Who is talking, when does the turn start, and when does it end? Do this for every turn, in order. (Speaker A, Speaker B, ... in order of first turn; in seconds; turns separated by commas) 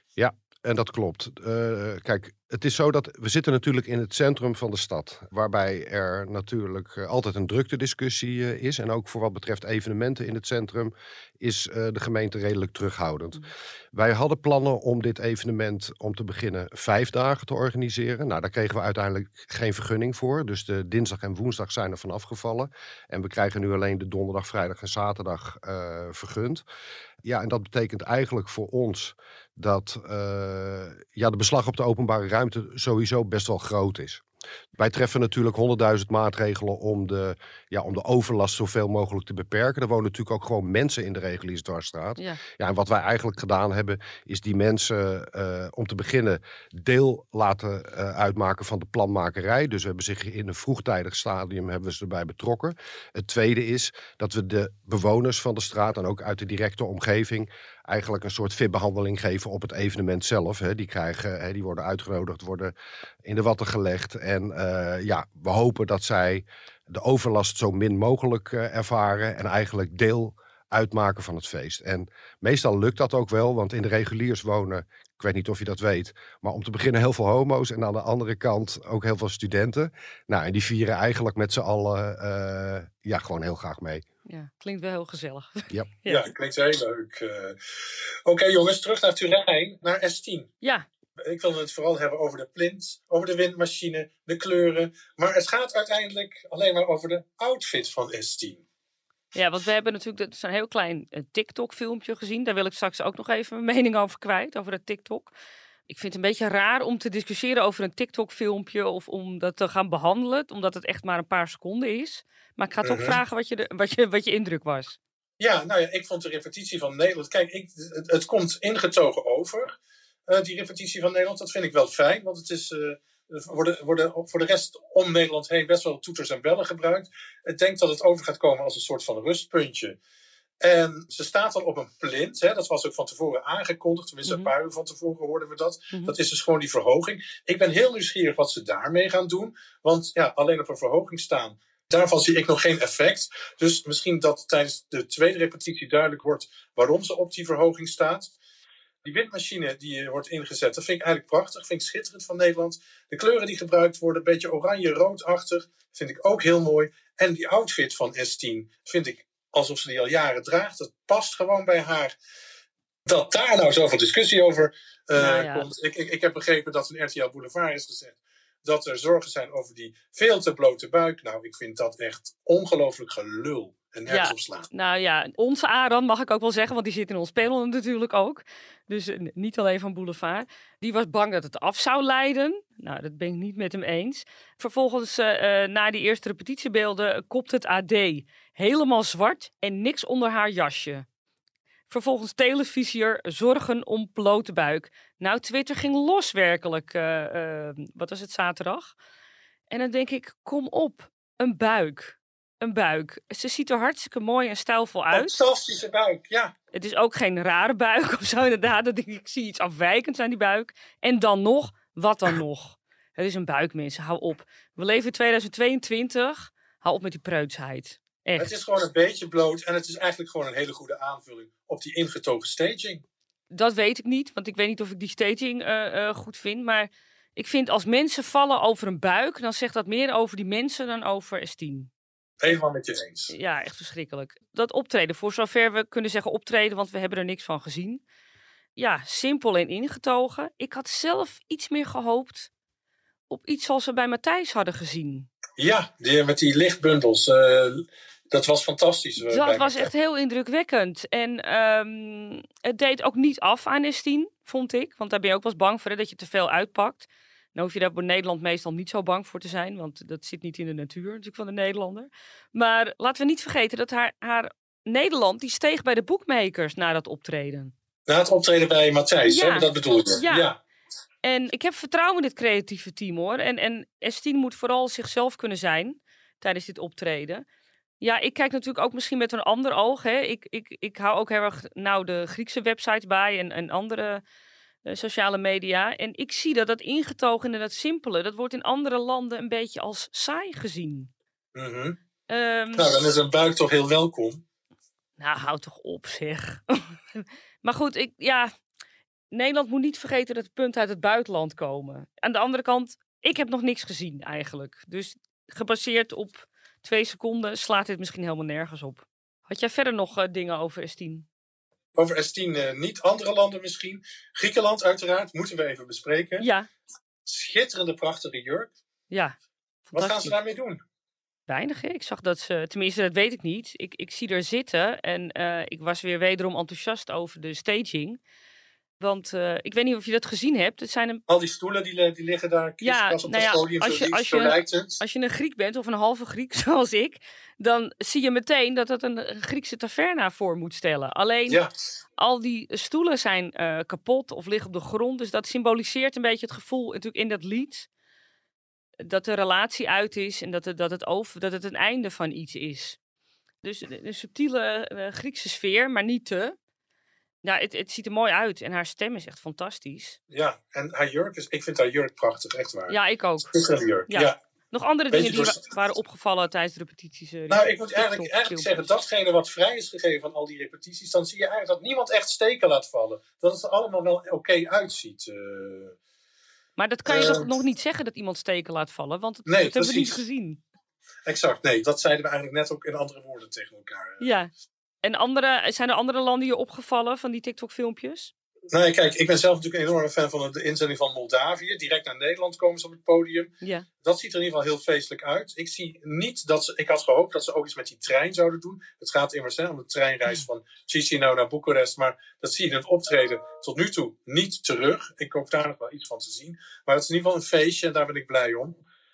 Speaker A: 0.2-26.6, Speaker A: 27.2-34.2, Speaker A: 34.8-62.7, Speaker A: 63.2-84.0, Speaker B: 84.3-86.3, Speaker C: 86.1-87.6, Speaker C: 88.2-90.5, Speaker B: 90.6-90.9, Speaker C: 91.2-98.6, Speaker B: 99.3-105.3, Speaker B: 105.9-115.0, Speaker C: 112.8-113.2, Speaker C: 115.4-119.7, Speaker C: 120.3-130.0, Speaker C: 130.6-148.3, Speaker B: 134.3-134.5, Speaker C: 149.1-162.1, Speaker C: 163.1-174.7, Speaker B: 165.2-165.7, Speaker B: 174.1-191.1, Speaker B: 191.9-199.0, Speaker B: 199.7-205.3, Speaker C: 205.1-206.5, Speaker B: 206.7-218.5, Speaker C: 218.4-223.0, Speaker B: 223.5-231.9, Speaker C: 232.4-233.3, Speaker B: 233.3-238.0, Speaker B: 238.8-242.5, Speaker B: 243.3-245.3, Speaker C: 245.6-249.9, Speaker B: 249.2-267.7, Speaker C: 268.1-270.6, Speaker B: 269.2-270.5, Speaker B: 271.2-277.4, Speaker B: 278.0-284.2, Speaker B: 284.9-291.1, Speaker C: 291.6-292.0, Speaker B: 292.3-292.9, Speaker C: 292.8-294.4, Speaker B: 295.2-298.5, Speaker B: 299.3-311.3, Speaker C: 312.0-316.5, Speaker B: 316.4-316.7, Speaker C: 317.3-318.7, Speaker B: 319.9-320.4, Speaker C: 319.9-320.8, Speaker B: 321.5-328.2, Speaker B: 329.0-331.2, Speaker C: 331.3-335.0, Speaker B: 332.8-341.6, Speaker B: 342.2-347.9, Speaker B: 349.0-353.0, Speaker B: 353.6-356.6, Speaker B: 357.4-360.2, Speaker C: 360.3-364.4, Speaker B: 362.9-363.5, Speaker B: 364.1-368.9, Speaker C: 365.1-365.7, Speaker C: 367.5-376.0, Speaker B: 376.8-380.6, Speaker C: 377.1-377.5, Speaker C: 379.5-380.2, Speaker C: 381.3-384.2, Speaker B: 384.2-384.5, Speaker B: 385.0-388.3, Speaker C: 388.7-393.5, Speaker C: 394.0-408.8